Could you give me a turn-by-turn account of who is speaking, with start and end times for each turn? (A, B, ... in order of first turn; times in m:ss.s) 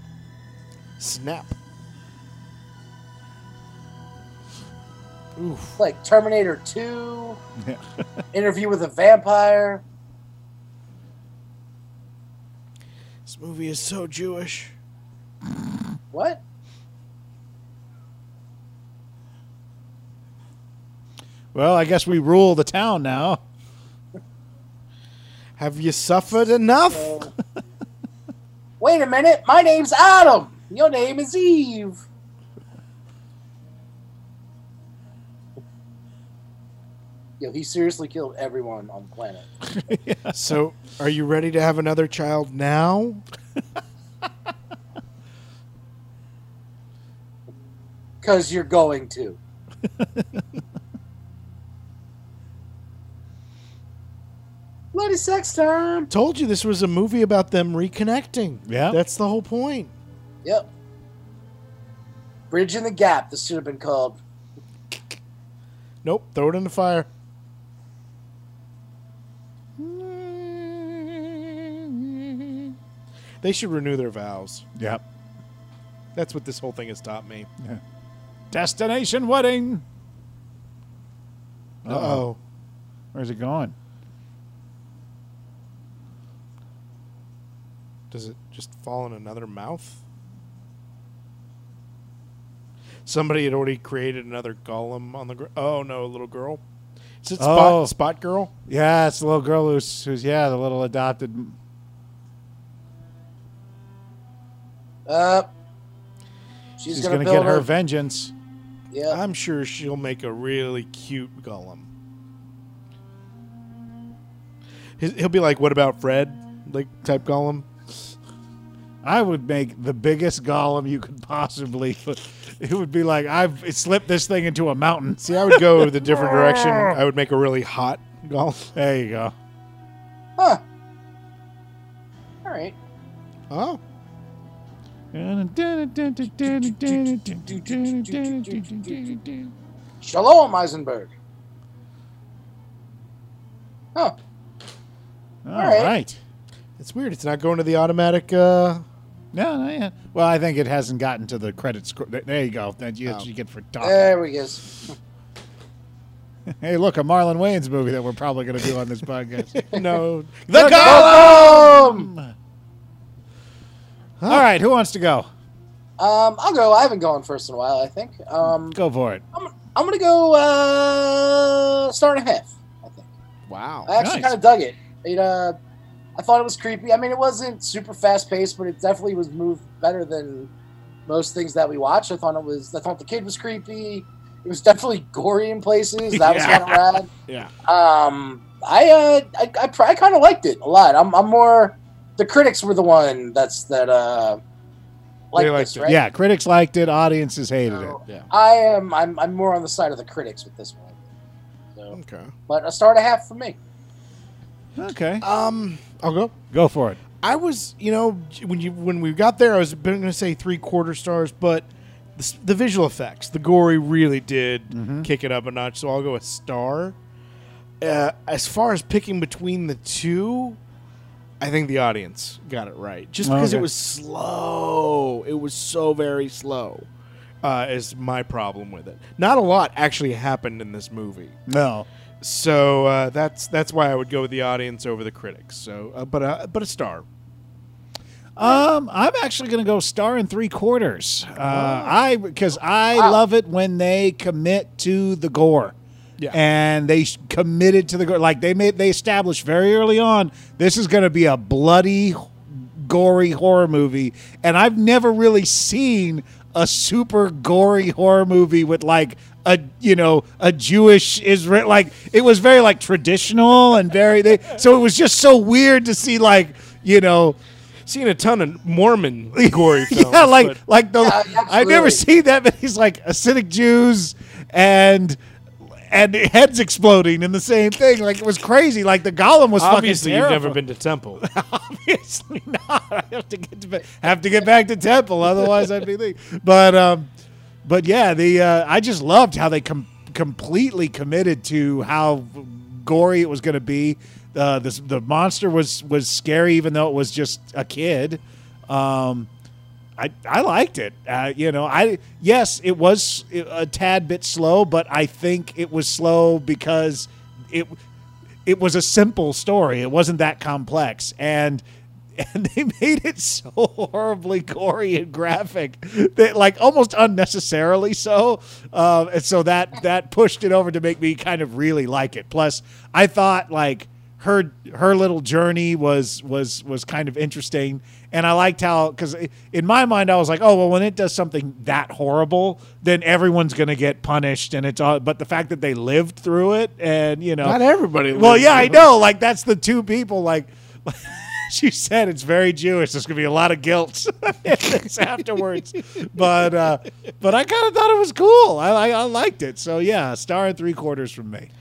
0:01.0-0:01.5 A
0:05.4-0:05.8 A
0:05.8-0:07.4 B
0:08.3-0:09.8 B
0:13.2-0:14.7 A
0:16.1-0:16.4 B
0:21.5-0:23.4 C
0:25.6-0:27.2 A
0:26.9-0:27.3 B
0:28.8-0:32.0 B
0:37.4-0:39.4 B
0:39.6-0:40.4 C
0:40.3-0:43.2 A
0:48.2-0:49.4 B
0:50.0-0:50.4 C
0:54.9-0:56.1 B
0:56.1-0:59.9 A
0:58.7-0:59.0 C
1:00.4-1:00.7 B
1:02.5-1:04.2 B
1:06.0-1:07.1 A
1:09.8-1:12.6 C
1:13.4-1:14.6 A
1:14.8-1:15.0 C
1:16.1-1:17.5 A
1:18.5-1:19.8 C
1:21.8-1:22.3 C
1:21.8-1:22.4 A
1:23.1-1:23.7 C
1:28.1-1:30.0 A
1:33.0-1:36.6 A
1:37.2-1:38.5 A
1:37.4-1:37.9 C
1:38.7-1:41.6 C
1:45.0-1:45.5 B
1:46.8-1:47.7 B
1:46.9-1:48.3 C
1:48.9-1:49.2 B
1:49.1-1:51.9 A
1:55.0-1:57.6 A
1:59.0-2:07.0 C
2:05.2-2:08.7 A
2:08.7-2:09.3 C
2:12.4-2:12.7 B
2:13.5-2:13.8 A
2:15.1-2:19.5 C
2:17.5-2:18.9 B
2:20.0-2:21.1 B
2:25.4-2:26.2 C
2:25.6-2:25.9 B
2:26.8-2:28.8 A
2:29.3-2:34.1 C
2:33.8-2:34.9 B
2:36.5-2:39.6 C
2:39.7-2:41.7 A
2:40.5-2:42.3 C
2:40.7-2:42.1 B
2:44.2-2:44.4 A
2:44.3-2:45.3 C
2:46.0-2:48.8 B
2:48.7-2:49.2 C
2:49.3-2:53.0 B
2:53.5-2:53.9 A
2:53.9-2:55.6 B
2:54.0-2:54.4 C
2:56.2-3:00.5 B
3:01.1-3:07.1 B
3:06.1-3:06.8 C
3:07.6-3:14.4 B
3:15.3-3:16.0 B
3:15.3-3:15.9 A
3:15.8-3:18.0 C
3:17.7-3:20.9 B
3:21.9-3:22.3 A
3:22.5-3:23.6 B
3:24.8-3:25.2 C
3:25.2-3:26.3 A
3:26.5-3:27.0 C
3:27.2-3:37.0 A
3:34.7-3:35.1 C
3:37.8-3:40.6 A
3:41.4-3:46.9 A
3:43.2-3:43.7 C
3:47.4-3:51.4 A
3:51.5-3:51.8 C
3:52.2-3:57.0 A
3:58.4-4:05.8 C
4:01.4-4:01.9 A
4:06.3-4:27.4 C
4:27.8-4:30.6 A
4:29.3-4:35.2 C
4:31.0-4:32.0 B
4:35.9-4:40.6 C
4:39.6-4:41.2 A
4:41.2-4:47.1 C
4:47.6-4:59.3 C
5:00.0-5:07.8 C
5:08.4-5:11.6 C
5:12.2-5:51.5 C
5:37.4-5:38.9 A